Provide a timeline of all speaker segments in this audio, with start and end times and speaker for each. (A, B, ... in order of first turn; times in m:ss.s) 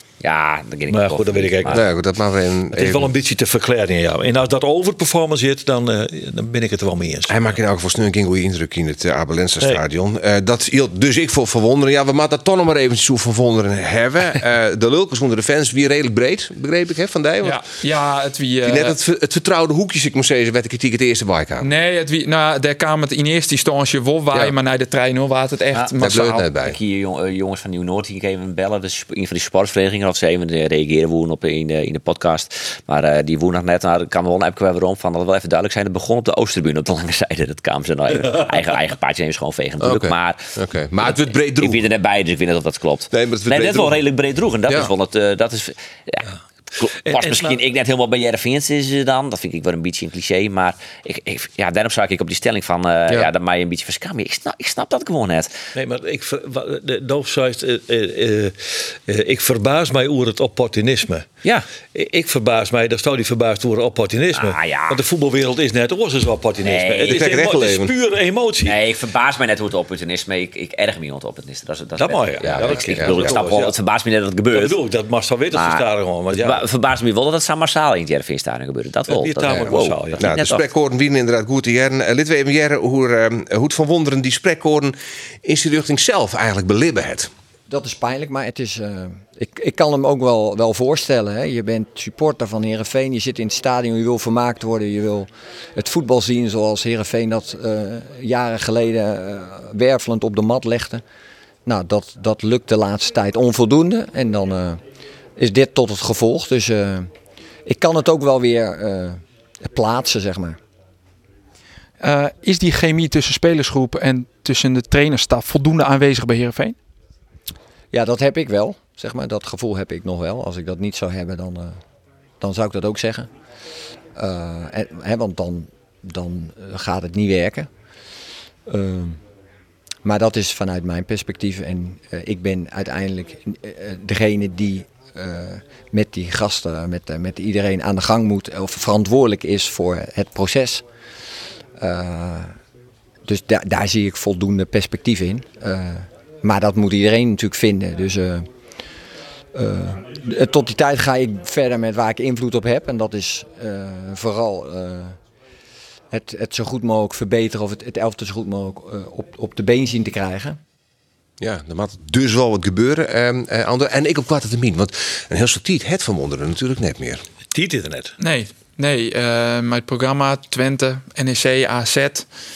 0:00.2-0:01.8 A
0:00.9-0:01.8 B
0:01.7-0:03.1 C
0:02.7-0:07.4 B
0:07.3-0:17.6 C
0:17.4-0:19.0 D
0:18.6-0:21.6 C
0:21.6-0:26.4 D
0:26.0-0:26.8 C
0:26.6-0:55.5 A
0:38.1-0:38.4 B
0:39.8-0:41.8 C
0:43.1-0:44.0 C
0:47.0-0:47.6 B
0:55.7-1:01.3 B
1:01.9-1:08.7 B
1:04.3-1:05.0 A
1:06.6-1:07.2 A
1:07.0-1:07.9 C
1:08.6-1:14.8 A
1:12.0-1:13.7 B
1:12.4-1:13.4 C
1:14.5-1:16.6 B
1:15.5-1:20.7 A
1:19.1-1:20.3 B
1:19.6-1:27.3 C
1:27.7-1:41.0 E
1:41.6-1:44.8 E
1:45.4-1:47.1 E
1:47.6-1:50.6 E
1:52.0-1:56.8 D
1:57.9-2:01.8 E
2:02.4-2:03.3 E
2:04.1-2:07.7 E
2:08.7-2:09.2 E
2:10.0-2:20.8 E
2:21.8-2:22.6 E
2:23.2-2:28.5 E
2:29.5-2:35.2 E
2:36.1-2:40.6 E
2:41.4-2:47.2 C
2:47.5-2:48.1 B
2:48.2-2:52.2 D